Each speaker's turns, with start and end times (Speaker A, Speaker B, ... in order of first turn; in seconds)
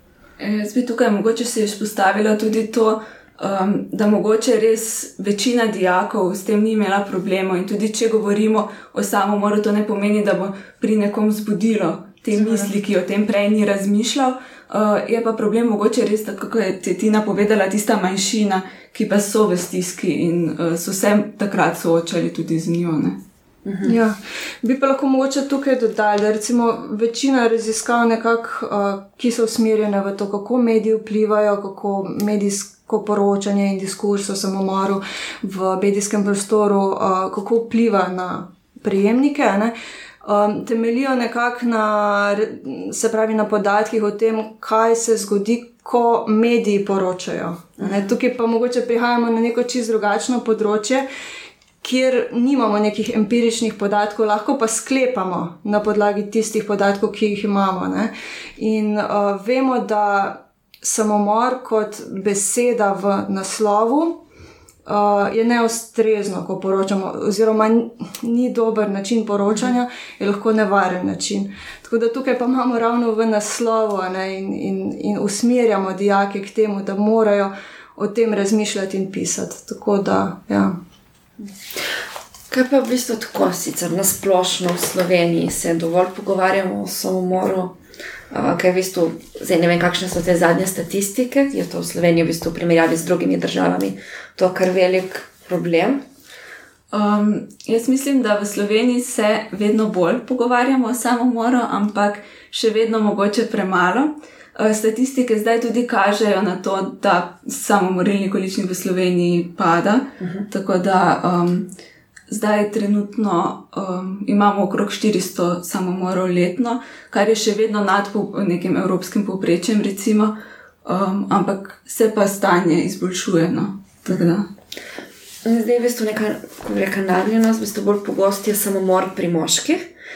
Speaker A: 0.4-23.2, 96.9-111.7, 112.3-124.5
Speaker B: 12.4-12.7, 23.8-51.0, 51.8-64.2, 64.9-80.8
Speaker C: 23.6-24.0, 47.8-48.1, 82.5-87.8, 88.3-96.0, 110.2-110.5, 125.5-129.9